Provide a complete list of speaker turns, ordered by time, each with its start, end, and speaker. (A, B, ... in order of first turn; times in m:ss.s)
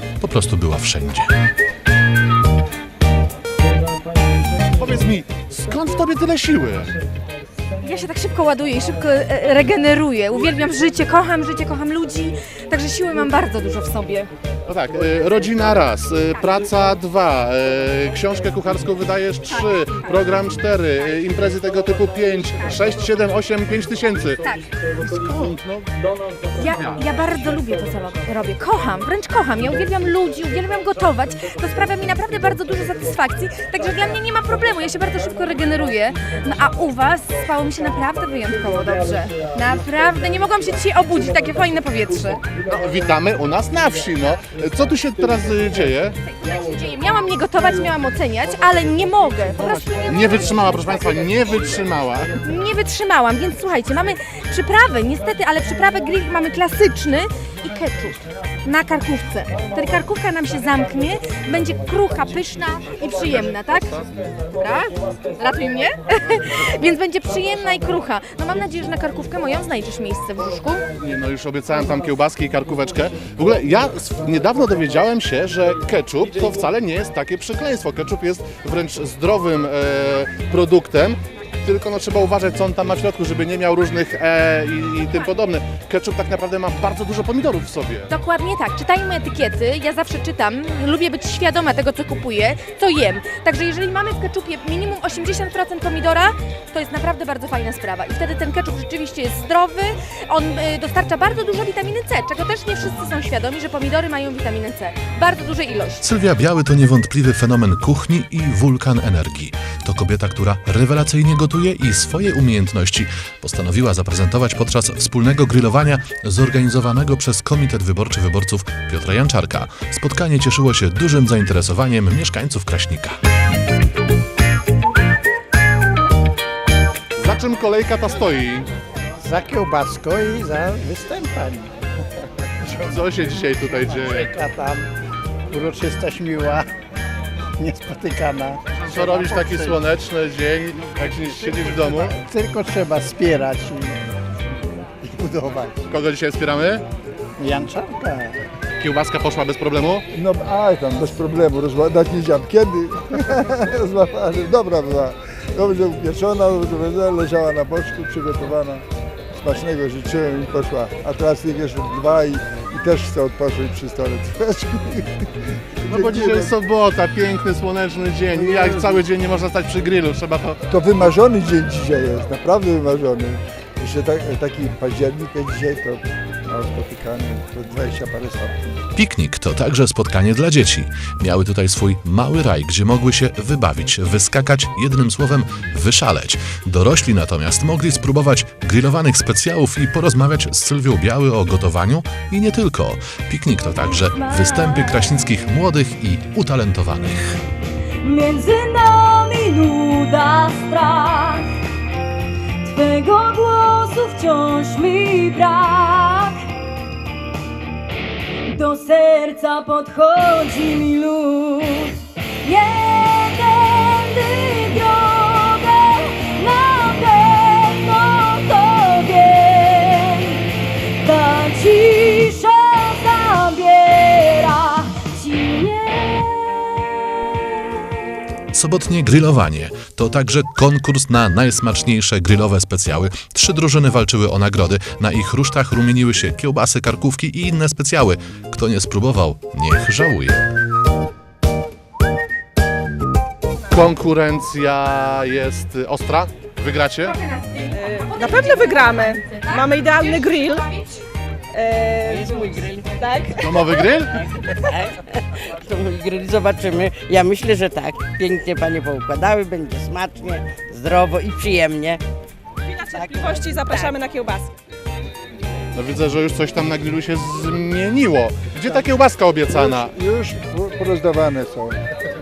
0:00.2-0:01.3 A
0:04.7-0:06.9 B
0:07.8-0:14.3 C
0:14.7-0:24.4 B
0:25.0-0:25.9 B
0:26.5-0:42.5 C
0:26.6-0:27.0 B
0:42.6-0:46.2 B
0:46.2-0:51.2 C
0:50.0-0:52.3 B
0:52.4-1:10.9 C
1:11.0-1:28.1 B
1:28.1-1:46.0 C
1:46.0-2:03.2 A
2:07.2-2:08.7 B
2:09.2-2:11.7 D
2:12.7-2:14.3 B
2:14.2-2:14.9 D
2:15.5-2:16.7 D
2:17.6-2:19.7 D
2:18.7-2:22.2 B
2:22.2-2:24.0 D
2:25.0-2:25.8 D
2:25.9-2:26.8 B
2:27.4-2:28.4 D
2:28.8-2:30.0 B
2:30.1-2:38.8 E
2:39.4-2:46.5 E
2:45.9-2:50.6 B
2:48.3-2:49.0 E
2:50.7-2:58.6 E
2:58.9-3:17.4 A
3:13.8-3:15.3 F
3:18.0-3:21.5 F
3:22.6-3:26.4 F
3:28.4-3:48.0 F
3:48.5-4:00.5 A
4:03.7-4:07.1 B
4:07.0-4:10.9 C
4:07.7-4:10.7 G
4:11.5-4:13.8 G
4:12.1-4:13.4 H
4:13.4-4:14.2 B
4:14.1-4:22.0 H
4:22.7-4:24.5 G
4:22.9-4:23.9 H
4:25.7-4:29.9 B
4:29.5-4:31.8 E